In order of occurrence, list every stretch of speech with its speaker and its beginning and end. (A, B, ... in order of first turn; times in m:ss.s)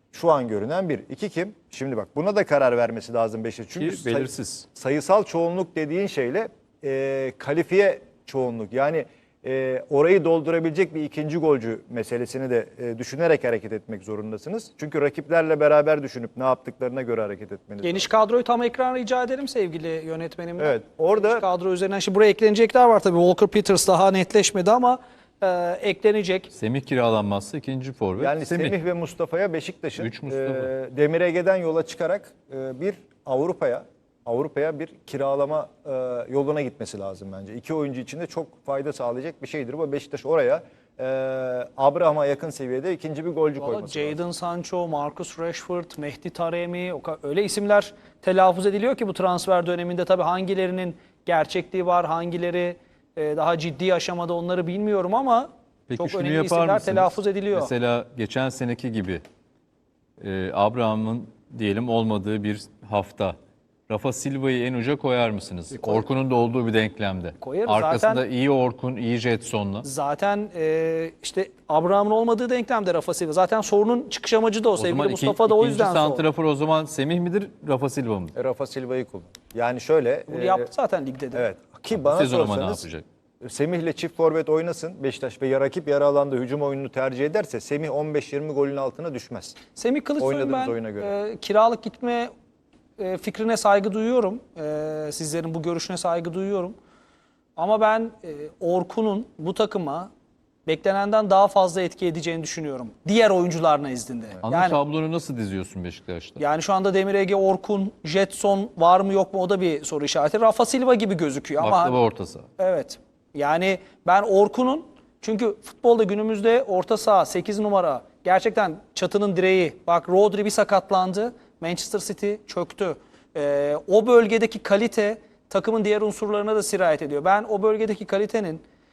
0:00.1-0:18.1 A
0:03.8-0:04.7 B
0:17.8-0:26.5 C
0:20.6-0:21.5 A
0:26.5-0:28.8 B
0:28.2-0:44.2 A
0:30.0-0:30.7 B
0:43.6-0:57.7 C
0:55.9-0:59.2 B
1:00.2-1:03.4 B
1:03.9-1:09.9 B
1:05.8-1:06.1 C
1:07.4-1:08.2 C
1:09.8-1:16.3 C
1:14.8-1:18.4 B
1:18.4-1:20.7 A
1:20.3-1:21.5 C
1:21.3-1:22.8 A
1:21.9-1:23.0 B
1:23.4-1:29.6 A
1:29.8-1:32.3 C
1:30.2-1:31.1 A
1:33.0-1:36.8 C
1:37.6-1:40.1 C
1:40.7-1:44.8 C
1:44.4-1:46.4 B
1:46.4-1:52.0 C
1:51.6-1:52.5 B
1:52.6-2:08.6 C